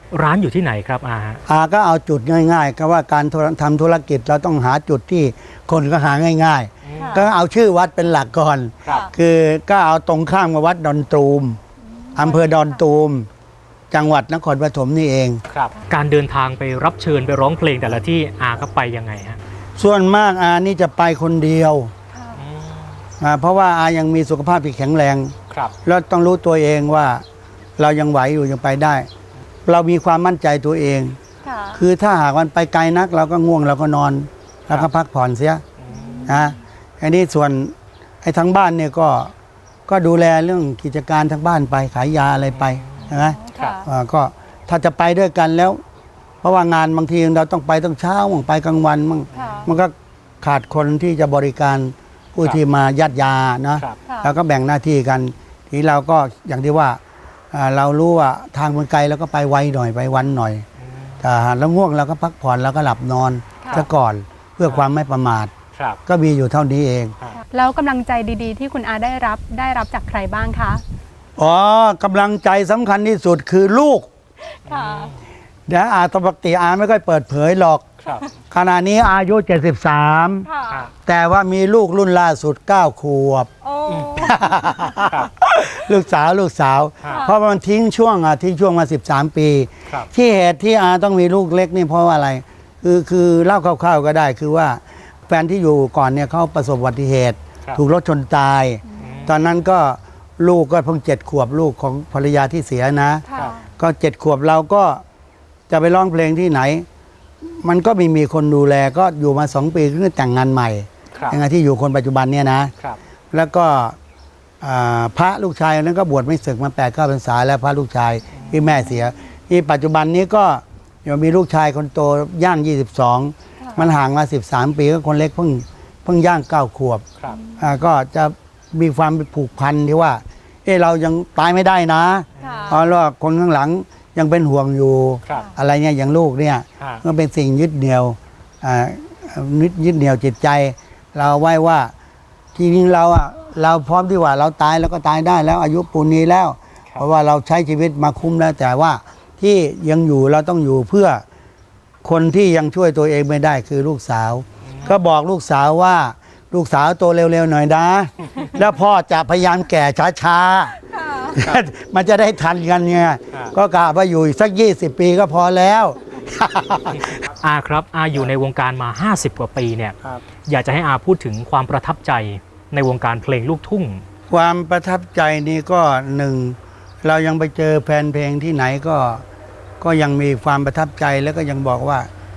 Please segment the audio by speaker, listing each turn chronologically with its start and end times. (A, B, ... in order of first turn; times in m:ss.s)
0:00.1-0:01.4 A
0:01.4-0:11.6 B
0:06.8-0:07.2 A
0:06.9-0:07.2 C
0:08.9-0:09.1 C
0:11.9-0:12.8 C
0:12.2-0:13.3 B
0:13.9-0:15.4 B
0:15.5-0:19.4 A
0:19.8-0:21.9 B
0:22.1-0:22.4 C
0:22.4-0:23.0 A
0:23.2-0:27.2 B
0:27.8-0:29.1 B
0:29.6-0:31.2 B
0:31.4-0:31.8 C
0:31.7-0:35.6 B
0:35.8-0:36.2 A
0:35.9-0:36.5 C
0:36.2-0:39.3 B
0:39.9-0:45.8 B
0:42.5-0:43.8 A
0:43.3-0:43.9 C
0:46.4-0:57.0 B
0:49.3-0:49.7 C
0:49.4-0:49.7 A
0:54.0-0:54.3 C
0:57.5-1:00.6 B
1:00.8-1:01.2 A
1:01.2-1:05.5 B
1:03.6-1:03.9 C
1:05.7-1:06.0 A
1:06.0-1:07.1 B
1:07.3-1:10.8 C
1:11.4-1:14.1 B
1:14.7-1:15.1 C
1:14.7-1:15.1 A
1:15.7-1:17.8 B
1:18.0-1:18.3 A
1:18.5-1:23.5 B
1:20.4-1:20.8 C
1:23.6-1:25.0 C
1:23.9-1:24.2 A
1:24.2-1:45.0 B
1:27.0-1:27.3 C
1:38.9-1:39.2 C
1:39.0-1:39.3 A
1:43.3-1:43.7 C
1:43.3-1:43.6 A
1:45.7-1:46.8 B
1:47.4-1:52.7 B
1:51.1-1:51.4 A
1:53.3-1:54.0 B
1:54.6-2:07.0 B
1:58.3-1:58.6 A
2:03.6-2:03.8 C
2:07.4-2:07.7 C
2:07.6-2:21.9 B
2:12.4-2:12.8 A
2:12.4-2:12.8 C
2:15.2-2:15.5 A
2:22.5-2:31.2 B
2:32.0-2:47.2 B
2:34.6-2:35.0 A
2:41.0-2:41.4 C
2:47.1-2:54.0 A
2:54.3-2:59.2 B
2:59.8-3:02.1 B